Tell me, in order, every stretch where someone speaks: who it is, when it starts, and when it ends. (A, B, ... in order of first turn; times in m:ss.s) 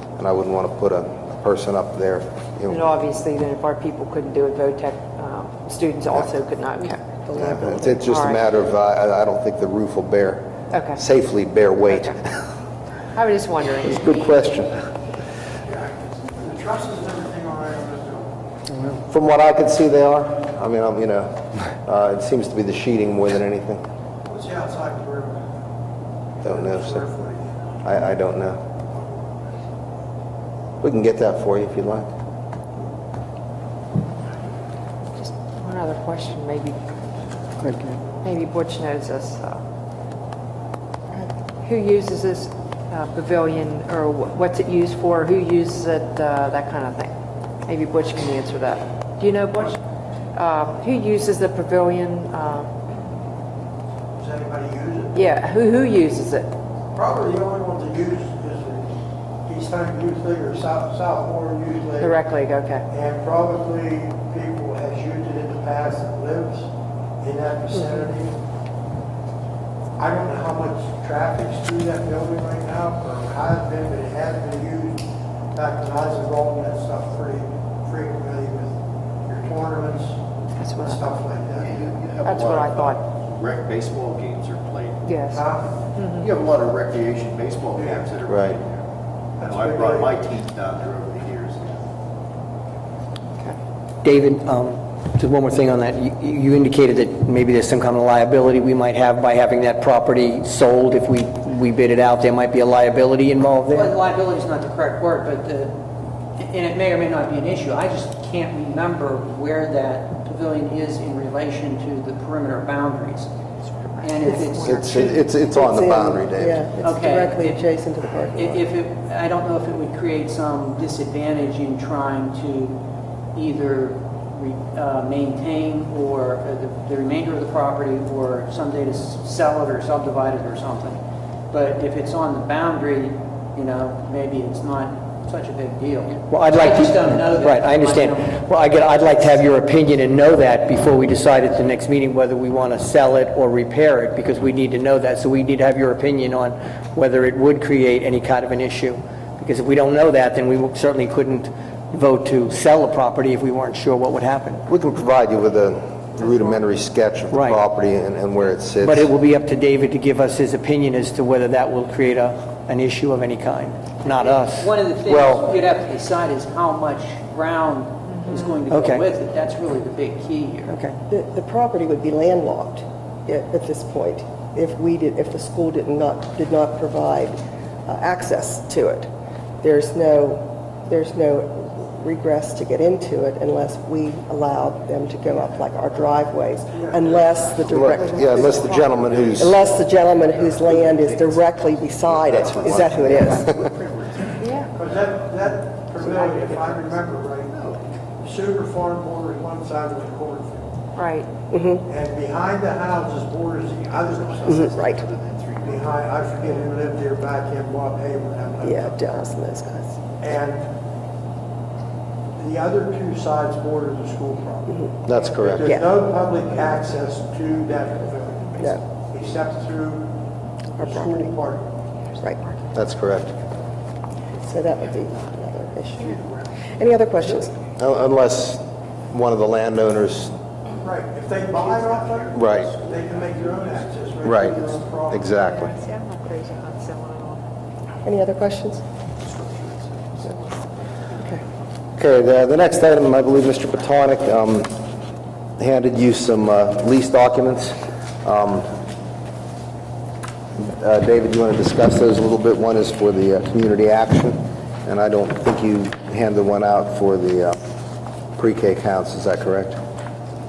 0:00.2-0:02.8 A
0:02.7-0:07.0 B
0:07.3-0:08.0 C
0:07.4-0:12.3 A
0:08.1-0:08.4 B
0:10.7-0:11.0 B
0:11.9-0:12.2 B
0:13.1-0:14.2 B
0:13.8-0:14.9 A
0:15.7-0:18.3 D
0:19.1-0:23.8 A
0:24.2-0:25.5 D
0:26.4-0:27.0 A
0:26.4-0:27.7 D
0:27.8-0:28.6 A
0:28.9-0:29.2 D
0:30.8-0:32.1 A
0:35.2-0:36.8 B
0:37.6-0:38.0 E
0:38.2-0:39.6 B
0:41.6-0:47.1 B
0:47.7-0:49.8 B
0:50.4-0:52.7 B
0:54.2-0:55.2 D
0:55.1-0:56.5 B
0:56.9-0:59.0 D
0:59.5-1:02.2 D
1:02.0-1:02.8 B
1:02.9-1:08.4 D
1:10.0-1:20.2 D
1:20.6-1:21.2 B
1:20.8-1:22.0 D
1:21.6-1:25.2 F
1:22.3-1:23.0 B
1:25.1-1:25.4 B
1:25.3-1:26.0 D
1:26.0-1:26.3 B
1:26.2-1:28.8 F
1:27.8-1:28.1 D
1:28.3-1:28.6 A
1:29.4-1:30.2 D
1:29.4-1:31.8 F
1:34.0-1:43.9 E
1:43.7-1:45.8 G
1:46.4-1:53.3 G
1:54.0-1:55.3 B
1:54.0-1:55.1 G
1:54.2-1:54.5 C
1:54.6-1:56.6 A
1:55.4-1:58.7 C
1:56.8-1:57.7 G
1:58.3-2:02.8 G
2:03.4-2:11.0 G
2:11.5-2:18.4 G
2:16.3-2:34.6 E
2:34.7-2:39.1 A
2:37.3-2:37.6 E
2:38.8-2:44.7 E
2:44.2-2:50.8 G
2:45.1-2:45.5 A
2:48.7-2:49.0 E
2:50.7-2:51.0 E
2:51.1-2:59.1 C
2:59.6-3:08.7 C
3:06.7-3:07.6 D
3:06.8-3:15.3 F
3:07.7-3:09.5 A
3:08.1-3:08.9 B
3:09.4-3:13.5 C
3:12.4-3:13.6 A
3:14.4-3:14.7 B
3:14.8-3:17.5 D
3:16.0-3:16.8 B
3:16.2-3:16.6 F
3:17.4-3:17.9 F
3:18.2-3:20.8 D
3:21.0-3:21.3 B
3:21.5-3:21.8 C
3:21.9-3:24.6 D
3:24.0-3:26.4 F
3:24.5-3:25.1 C
3:25.6-3:29.1 D
3:28.7-3:30.0 C
3:30.2-3:30.7 D
3:32.4-3:34.8 D
3:35.1-3:35.7 A
3:35.3-3:40.2 D
3:40.8-3:41.8 D
3:40.8-3:41.2 C
3:42.7-3:43.4 A
3:44.3-3:47.6 C
3:47.8-3:50.4 A
3:50.8-3:55.3 D
3:51.5-3:54.9 F
3:52.3-3:52.7 A
3:54.2-3:55.7 A
3:55.4-3:57.4 B
3:58.0-3:58.8 C
3:59.2-4:01.4 F
4:02.0-4:04.8 A
4:05.6-4:08.7 A
4:10.6-4:17.6 A
4:18.4-4:19.8 A